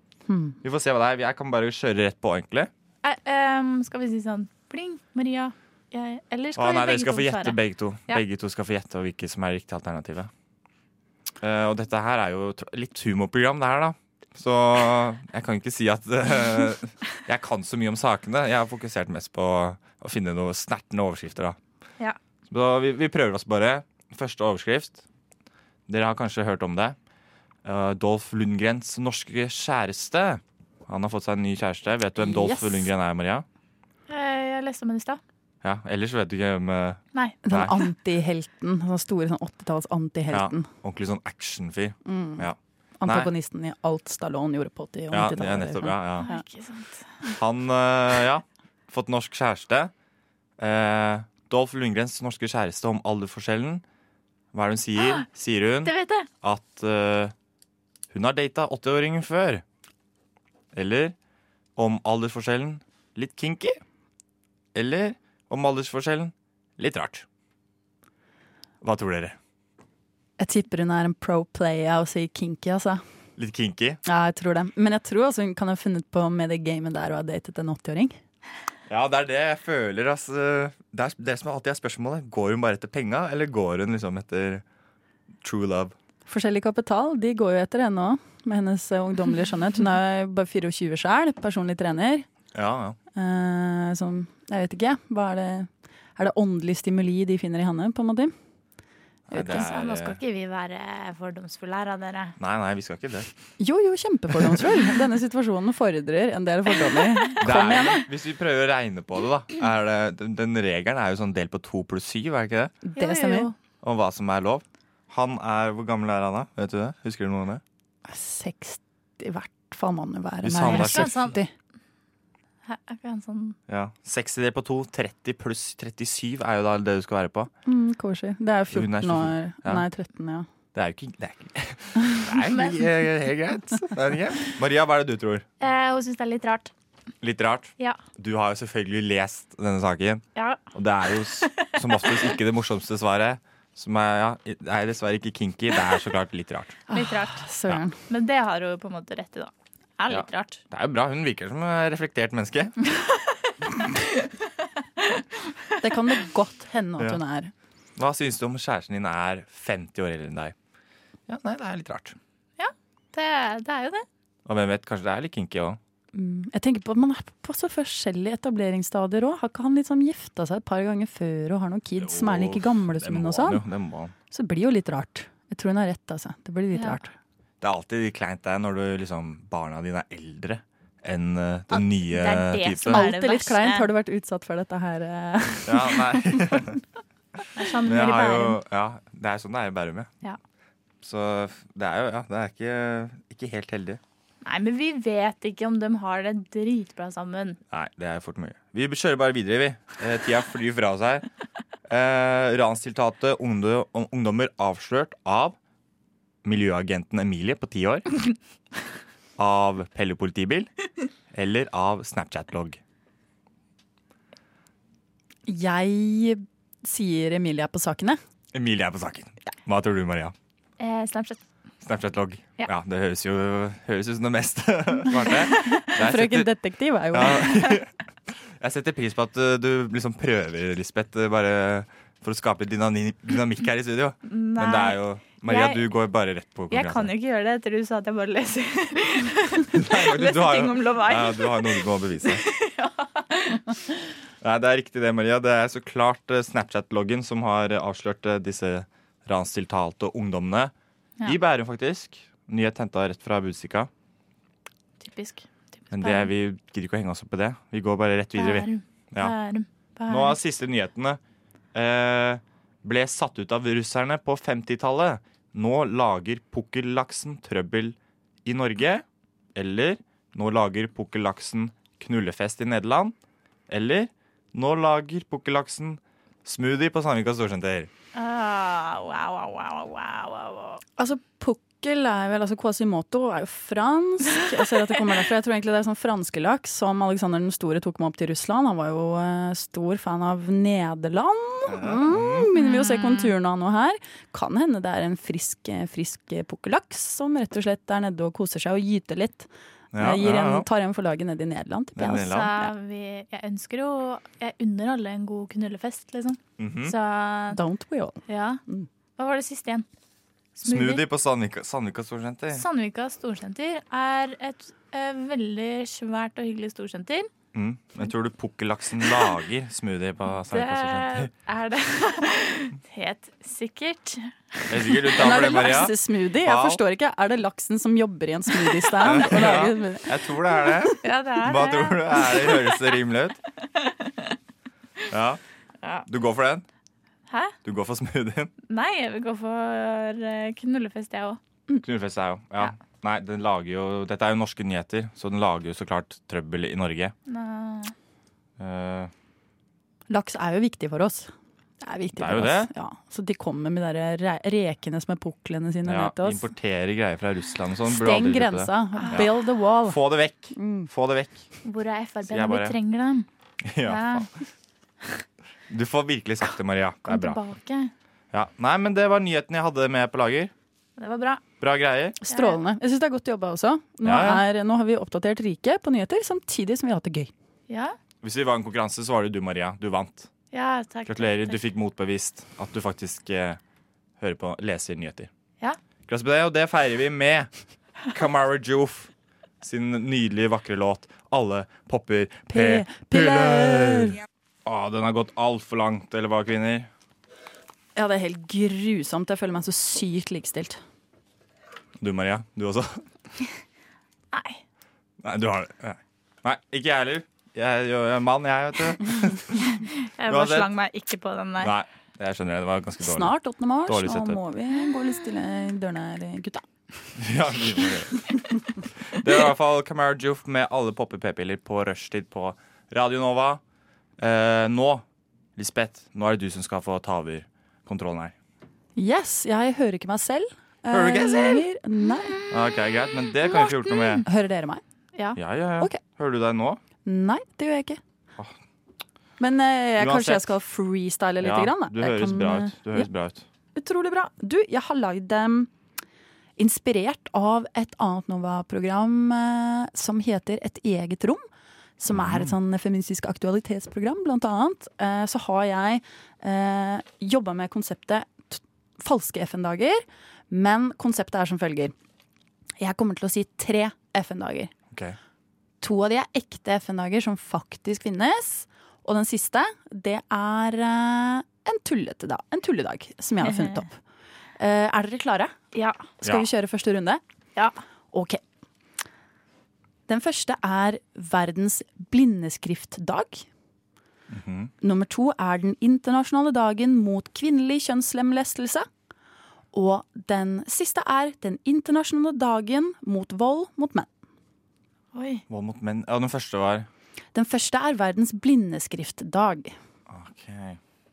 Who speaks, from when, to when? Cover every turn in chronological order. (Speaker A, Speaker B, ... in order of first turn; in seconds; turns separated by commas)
Speaker A: 0.3-0.6, Speaker B: 0.6-2.7, Speaker C: 3.0-8.2, Speaker B: 6.6-10.3, Speaker B: 11.4-21.6, Speaker B: 22.5-25.0, Speaker B: 25.9-27.0, Speaker B: 27.6-33.5, Speaker A: 32.2-32.9, Speaker C: 34.1-35.2, Speaker B: 35.6-37.8, Speaker A: 37.5-40.7, Speaker B: 40.3-43.3, Speaker A: 42.0-42.5, Speaker A: 43.0-46.4, Speaker B: 45.1-46.3, Speaker C: 46.2-47.1, Speaker B: 47.3-49.9, Speaker B: 50.6-53.8, Speaker B: 54.5-57.3, Speaker C: 55.0-55.2, Speaker C: 55.9-56.3, Speaker B: 58.1-59.6, Speaker B: 60.7-61.1, Speaker B: 61.8-63.8, Speaker B: 64.8-67.2, Speaker B: 68.8-69.4, Speaker A: 70.4-73.0, Speaker B: 73.4-74.0, Speaker A: 74.0-78.2, Speaker B: 78.9-84.6, Speaker B: 85.4-86.0, Speaker A: 86.3-92.3, Speaker B: 92.5-93.0, Speaker A: 93.2-98.3, Speaker B: 99.3-100.2, Speaker C: 99.3-102.4, Speaker B: 102.4-103.3, Speaker A: 103.6-108.0, Speaker B: 107.4-112.8, Speaker A: 112.8-113.5, Speaker C: 113.0-113.5, Speaker B: 113.8-117.6, Speaker A: 118.1-121.5, Speaker B: 120.4-121.3, Speaker C: 120.7-121.4, Speaker C: 122.7-123.6, Speaker B: 123.7-127.5, Speaker A: 127.7-130.5, Speaker B: 128.7-129.8, Speaker B: 130.8-135.5, Speaker C: 132.5-132.8, Speaker C: 135.6-136.7, Speaker B: 137.2-146.8, Speaker C: 140.4-140.6, Speaker C: 141.7-142.1, Speaker A: 146.9-147.9, Speaker C: 146.9-147.4, Speaker C: 148.1-150.6, Speaker B: 150.1-152.8, Speaker A: 155.8-157.5, Speaker B: 158.0-160.5, Speaker B: 161.3-162.2, Speaker C: 162.6-164.1, Speaker B: 164.5-165.8, Speaker A: 166.1-173.6, Speaker B: 172.0-174.1, Speaker A: 174.3-177.2, Speaker B: 177.6-183.0, Speaker C: 181.7-183.9, Speaker A: 182.9-186.7, Speaker B: 185.7-186.8, Speaker C: 187.6-188.6, Speaker B: 187.9-190.1, Speaker B: 191.0-194.0, Speaker C: 194.4-197.6, Speaker B: 197.7-201.3, Speaker B: 201.9-205.6, Speaker B: 206.4-208.2, Speaker B: 209.4-210.7, Speaker B: 211.3-212.8, Speaker A: 215.5-218.2, Speaker B: 218.5-220.3, Speaker C: 220.8-221.4, Speaker B: 221.8-226.5, Speaker A: 225.9-227.8, Speaker B: 227.1-227.9, Speaker B: 228.6-237.1, Speaker C: 234.3-235.8, Speaker C: 236.7-243.8, Speaker B: 239.7-242.5, Speaker B: 244.4-250.7, Speaker B: 251.2-253.9, Speaker C: 255.0-256.3, Speaker B: 255.9-259.3, Speaker C: 258.4-260.4, Speaker B: 260.1-261.2, Speaker B: 261.7-273.1, Speaker B: 273.7-277.9, Speaker C: 278.1-280.8, Speaker A: 281.0-302.6, Speaker B: 291.7-292.5, Speaker C: 292.5-293.3, Speaker B: 299.9-300.7, Speaker B: 302.0-302.6, Speaker C: 302.3-307.6, Speaker B: 306.6-306.9, Speaker A: 307.5-308.9, Speaker C: 308.3-308.6, Speaker C: 309.2-309.9, Speaker C: 310.6-311.0, Speaker B: 310.6-312.6, Speaker C: 312.5-317.3, Speaker B: 317.5-321.3, Speaker C: 320.5-325.0, Speaker B: 324.7-326.8, Speaker A: 325.2-330.7, Speaker B: 329.0-333.4, Speaker C: 331.0-332.7, Speaker C: 333.8-334.3, Speaker B: 335.1-335.4, Speaker B: 336.1-336.6, Speaker C: 337.3-337.5, Speaker B: 337.6-338.5, Speaker C: 338.7-341.4, Speaker B: 341.8-347.1, Speaker C: 347.3-347.9, Speaker B: 348.6-349.1, Speaker A: 350.1-356.5, Speaker B: 352.2-352.7, Speaker B: 355.9-359.3, Speaker A: 357.9-360.0, Speaker B: 359.9-361.4, Speaker A: 360.5-360.9, Speaker C: 361.6-363.3, Speaker B: 362.3-362.8, Speaker B: 363.6-364.3, Speaker C: 363.8-364.3, Speaker B: 365.7-367.4, Speaker C: 367.1-367.9, Speaker B: 368.3-370.5, Speaker C: 371.0-371.4, Speaker B: 371.6-372.2, Speaker A: 372.2-377.3, Speaker C: 372.3-372.6, Speaker B: 374.0-374.4, Speaker C: 377.7-378.0, Speaker B: 378.2-380.3, Speaker C: 380.5-381.6, Speaker B: 381.1-383.6, Speaker B: 384.2-385.3, Speaker B: 386.1-387.5, Speaker B: 388.1-389.1, Speaker B: 389.6-396.9, Speaker A: 392.5-394.2, Speaker A: 397.9-400.8, Speaker B: 402.0-403.1, Speaker C: 404.3-404.6, Speaker B: 405.2-410.7, Speaker C: 409.7-411.7, Speaker B: 411.6-413.4, Speaker A: 413.0-417.1, Speaker B: 413.9-414.4, Speaker B: 417.2-423.6, Speaker B: 424.2-425.0, Speaker B: 425.6-428.3, Speaker A: 429.0-432.4, Speaker B: 430.9-431.6, Speaker B: 432.5-434.3, Speaker A: 434.2-434.8, Speaker B: 435.4-436.8, Speaker A: 437.0-438.0, Speaker A: 439.4-443.1, Speaker B: 440.0-440.5, Speaker B: 441.4-443.5, Speaker A: 443.8-445.7, Speaker A: 446.6-451.4, Speaker A: 452.0-461.9, Speaker B: 452.1-452.5, Speaker A: 462.8-464.7, Speaker B: 464.9-465.2, Speaker A: 465.8-474.0, Speaker C: 473.4-473.8, Speaker A: 474.6-475.5, Speaker C: 475.7-476.0, Speaker A: 476.2-477.2, Speaker B: 476.2-476.5, Speaker A: 478.1-478.4, Speaker A: 480.1-483.5, Speaker B: 484.3-484.7, Speaker A: 484.8-488.9, Speaker A: 489.7-494.1, Speaker C: 495.1-495.4, Speaker B: 495.5-496.9, Speaker A: 497.3-499.8, Speaker B: 500.1-500.8